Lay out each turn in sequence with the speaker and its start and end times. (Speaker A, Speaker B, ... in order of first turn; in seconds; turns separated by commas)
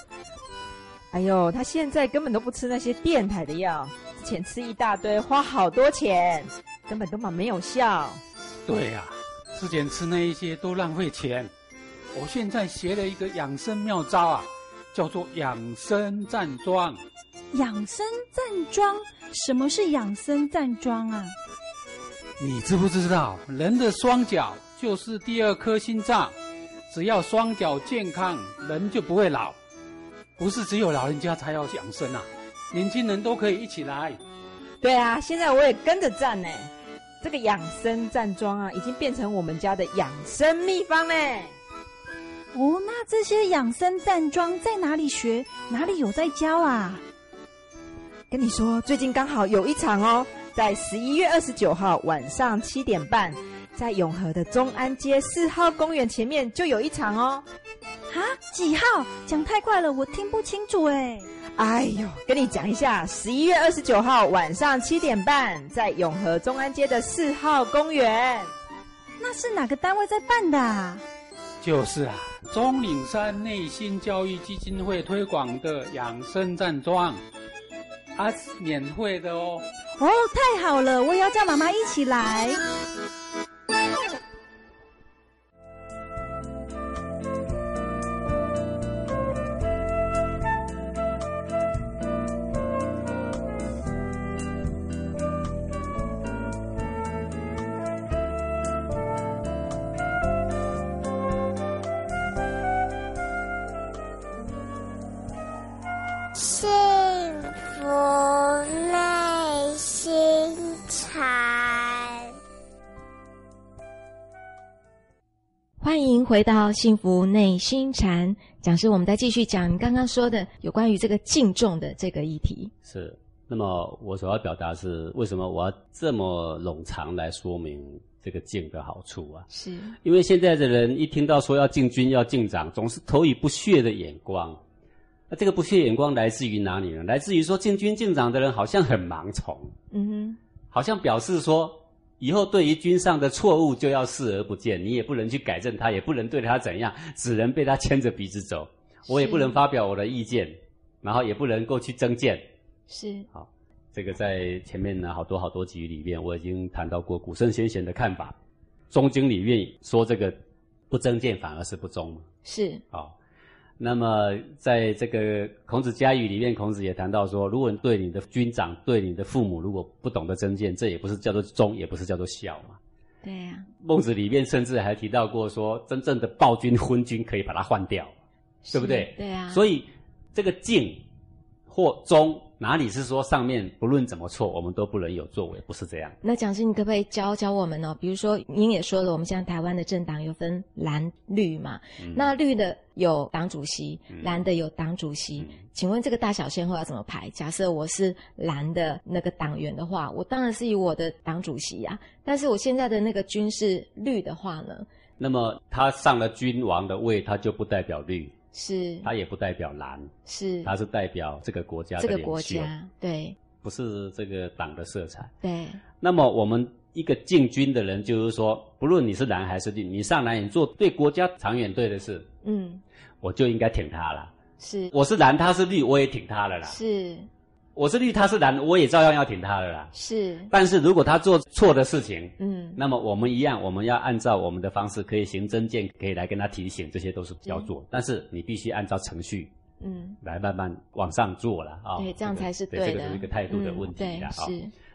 Speaker A: 1.1-8.2, Speaker B: 8.7-11.5, Speaker B: 12.1-17.0, Speaker C: 17.5-21.3, Speaker B: 22.4-26.3, Speaker B: 26.9-29.6, Speaker B: 30.4-34.2, Speaker A: 34.8-36.7, Speaker A: 37.2-41.5, Speaker C: 42.5-47.0, Speaker A: 48.3-57.4, Speaker C: 58.1-61.3, Speaker A: 61.6-68.5, Speaker C: 69.2-71.0, Speaker B: 71.6-77.2, Speaker B: 78.1-79.7, Speaker C: 80.0-82.6, Speaker D: 106.3-112.3, Speaker E: 115.8-122.7, Speaker F: 122.8-129.5, Speaker E: 129.5-129.9, Speaker F: 130.0-134.6, Speaker F: 135.3-139.7, Speaker E: 139.9-140.4, Speaker F: 140.7-152.4, Speaker E: 149.1-149.6, Speaker E: 152.9-153.3, Speaker F: 153.3-158.3, Speaker F: 158.9-160.3, Speaker F: 160.9-162.2, Speaker E: 162.4-162.8, Speaker F: 163.8-172.8, Speaker E: 173.2-173.7, Speaker F: 173.8-178.1, Speaker E: 178.6-179.6, Speaker F: 178.7-181.0, Speaker F: 181.7-186.2, Speaker E: 186.2-204.8, Speaker F: 192.0-192.3, Speaker F: 194.1-194.4, Speaker F: 205.2-208.3, Speaker E: 208.5-209.1, Speaker F: 209.0-210.1, Speaker E: 210.2-210.7, Speaker F: 210.6-212.7, Speaker E: 212.0-213.4, Speaker F: 213.6-215.3, Speaker E: 215.4-215.8, Speaker F: 216.0-222.3, Speaker E: 222.4-222.8, Speaker F: 223.2-224.3, Speaker E: 224.6-224.9, Speaker F: 224.9-226.8, Speaker E: 226.7-227.3, Speaker F: 227.7-229.9, Speaker E: 229.9-230.5, Speaker F: 230.5-239.5, Speaker E: 232.4-232.8, Speaker E: 239.8-240.2, Speaker F: 240.2-244.5, Speaker E: 242.0-244.7